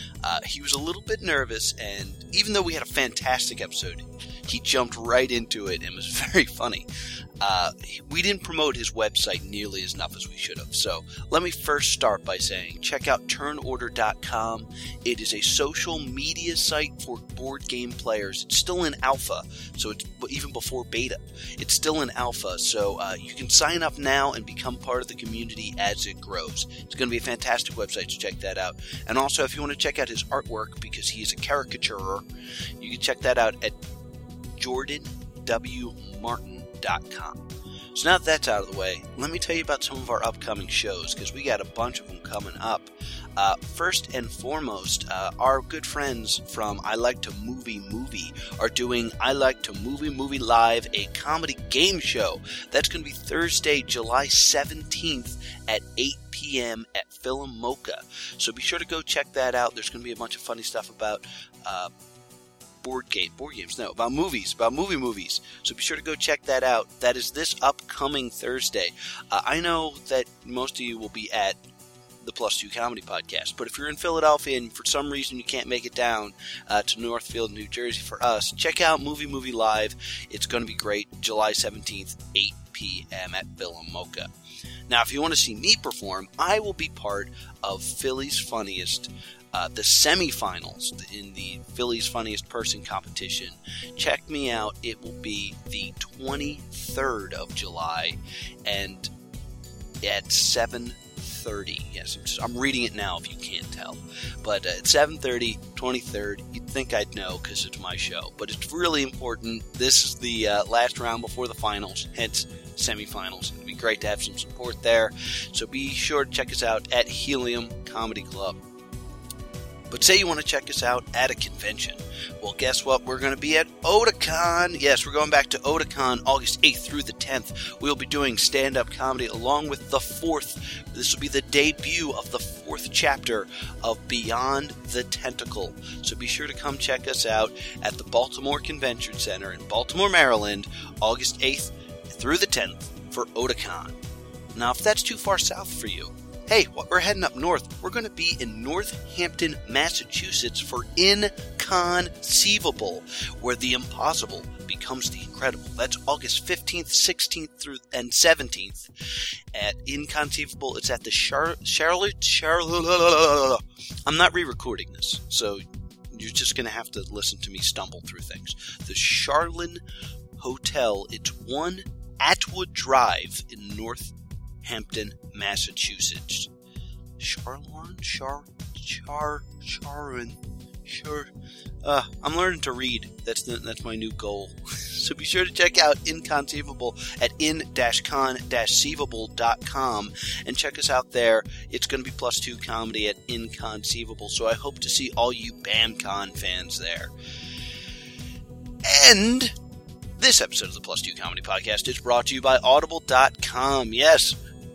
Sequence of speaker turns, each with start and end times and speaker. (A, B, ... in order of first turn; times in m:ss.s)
0:00.2-0:06.9 A
0:07.4-0:32.2 A
0:32.8-0:33.8 A
0:34.6-1:01.9 A
1:02.8-1:11.6 A
1:12.2-1:24.3 A
1:24.9-1:39.1 A
1:40.0-1:58.6 A
1:59.9-2:24.0 A
2:24.6-2:38.9 A
2:39.5-2:49.8 A
2:50.4-2:56.5 A
2:57.2-3:01.3 A
3:01.8-3:17.1 A
3:18.8-3:19.6 A
3:20.2-3:24.4 A